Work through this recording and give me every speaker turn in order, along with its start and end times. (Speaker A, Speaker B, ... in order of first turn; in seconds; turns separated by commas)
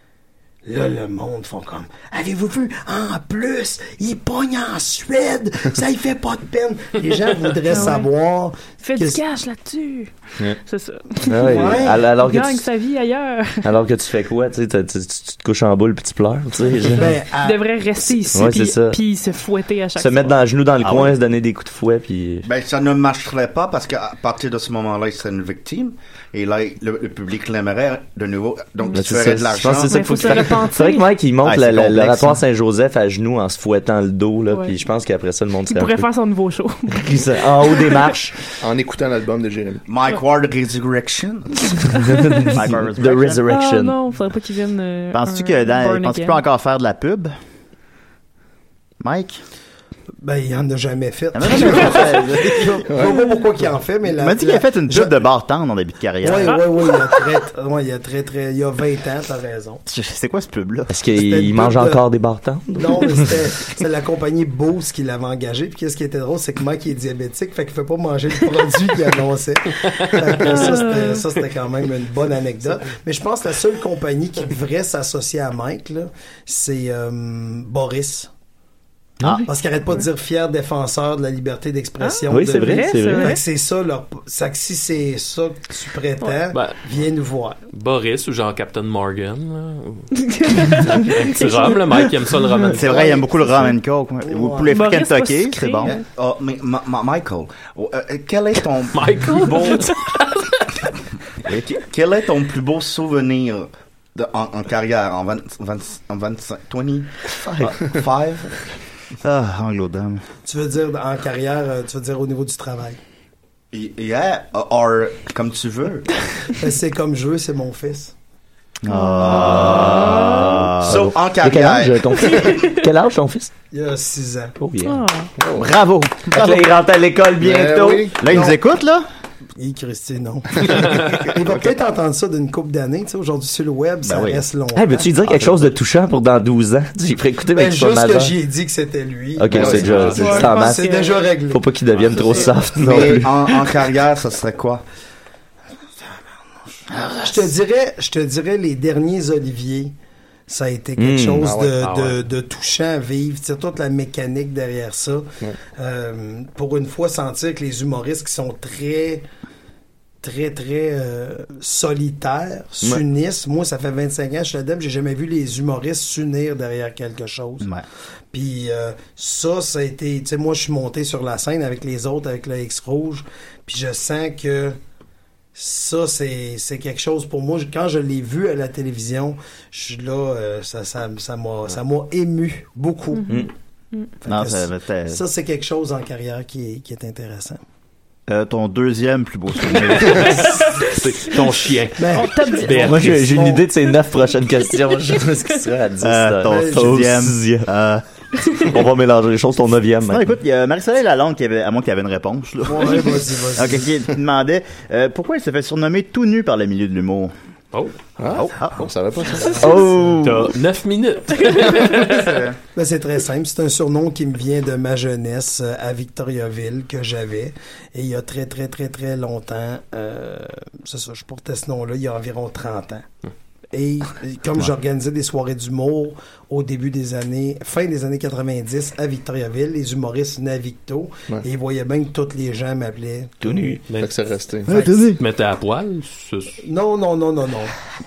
Speaker A: 0.7-9.2, Speaker B: 7.7-8.1, Speaker B: 8.8-13.7, Speaker C: 11.2-12.7, Speaker A: 11.4-12.0, Speaker C: 13.6-17.1, Speaker A: 16.9-18.4, Speaker B: 17.0-20.4, Speaker C: 18.3-19.0, Speaker C: 20.0-22.5, Speaker D: 20.8-21.1, Speaker E: 22.4-30.3, Speaker C: 28.9-36.1, Speaker B: 29.9-31.1, Speaker D: 31.4-32.4, Speaker B: 34.5-34.8, Speaker B: 35.6-38.1, Speaker C: 36.9-38.4, Speaker F: 38.6-39.8, Speaker E: 39.9-41.7, Speaker C: 42.0-44.0, Speaker B: 42.1-42.5, Speaker D: 42.5-43.4, Speaker B: 43.5-46.4, Speaker D: 45.1-47.3, Speaker D: 49.0-49.4, Speaker A: 50.2-55.2, Speaker D: 51.3-52.9, Speaker B: 51.6-52.1, Speaker B: 53.1-53.4, Speaker D: 54.2-56.6, Speaker A: 56.2-59.8, Speaker B: 56.4-57.4, Speaker D: 59.9-61.0, Speaker C: 60.9-63.4, Speaker A: 61.1-62.0, Speaker A: 62.7-78.3, Speaker B: 70.4-71.2, Speaker A: 79.4-87.6, Speaker B: 82.0-83.4, Speaker C: 82.3-83.3, Speaker G: 87.7-90.1, Speaker B: 90.1-92.8, Speaker G: 90.6-93.5, Speaker D: 92.7-95.9, Speaker A: 94.2-94.7, Speaker B: 94.7-96.0, Speaker E: 95.8-99.9, Speaker G: 98.9-100.6, Speaker E: 101.7-107.2, Speaker C: 107.3-107.7, Speaker E: 107.7-108.6, Speaker D: 109.2-110.2, Speaker A: 110.4-113.0, Speaker E: 113.7-116.5, Speaker A: 116.5-118.1, Speaker D: 118.8-121.1, Speaker B: 118.9-120.7, Speaker C: 119.6-123.5, Speaker E: 120.8-122.5, Speaker B: 122.1-122.9, Speaker A: 123.7-124.5, Speaker C: 124.6-125.0, Speaker B: 124.8-125.3, Speaker F: 125.4-125.7, Speaker D: 125.5-126.7, Speaker C: 126.3-128.1, Speaker F: 127.4-128.2, Speaker D: 128.1-129.0, Speaker A: 128.3-128.6, Speaker A: 129.6-135.1, Speaker F: 130.6-131.5, Speaker G: 130.9-131.2, Speaker D: 134.0-134.4, Speaker C: 134.7-138.3, Speaker D: 135.2-135.5, Speaker A: 137.5-142.5, Speaker C: 139.4-140.8, Speaker F: 139.5-140.3, Speaker G: 139.6-140.3, Speaker B: 140.1-141.2, Speaker C: 141.5-143.7, Speaker G: 141.9-142.4, Speaker E: 142.7-144.8, Speaker A: 146.0-149.9, Speaker D: 146.9-147.4, Speaker A: 150.5-159.2, Speaker C: 151.0-151.5, Speaker F: 151.4-151.7, Speaker G: 151.8-152.2, Speaker A: 160.2-167.7, Speaker A: 168.3-174.8, Speaker A: 175.5-183.4, Speaker B: 183.2-184.1, Speaker A: 184.2-187.6, Speaker D: 184.3-185.2, Speaker D: 188.3-190.5, Speaker G: 190.1-193.2, Speaker B: 190.3-191.5, Speaker A: 192.0-193.6, Speaker B: 192.1-192.8, Speaker C: 192.8-197.7, Speaker B: 194.8-195.2, Speaker D: 196.0-198.0, Speaker A: 196.4-197.0, Speaker C: 198.7-200.2, Speaker D: 200.1-207.3, Speaker A: 202.6-203.9, Speaker F: 208.2-209.9, Speaker D: 208.3-208.9, Speaker A: 209.3-210.2, Speaker C: 209.6-210.5, Speaker G: 210.2-212.4, Speaker B: 211.5-212.0, Speaker D: 212.2-212.5, Speaker A: 212.7-223.0, Speaker A: 223.7-233.8, Speaker C: 233.4-233.9, Speaker G: 233.9-236.6, Speaker F: 233.9-234.7, Speaker D: 234.7-235.2, Speaker A: 236.6-237.7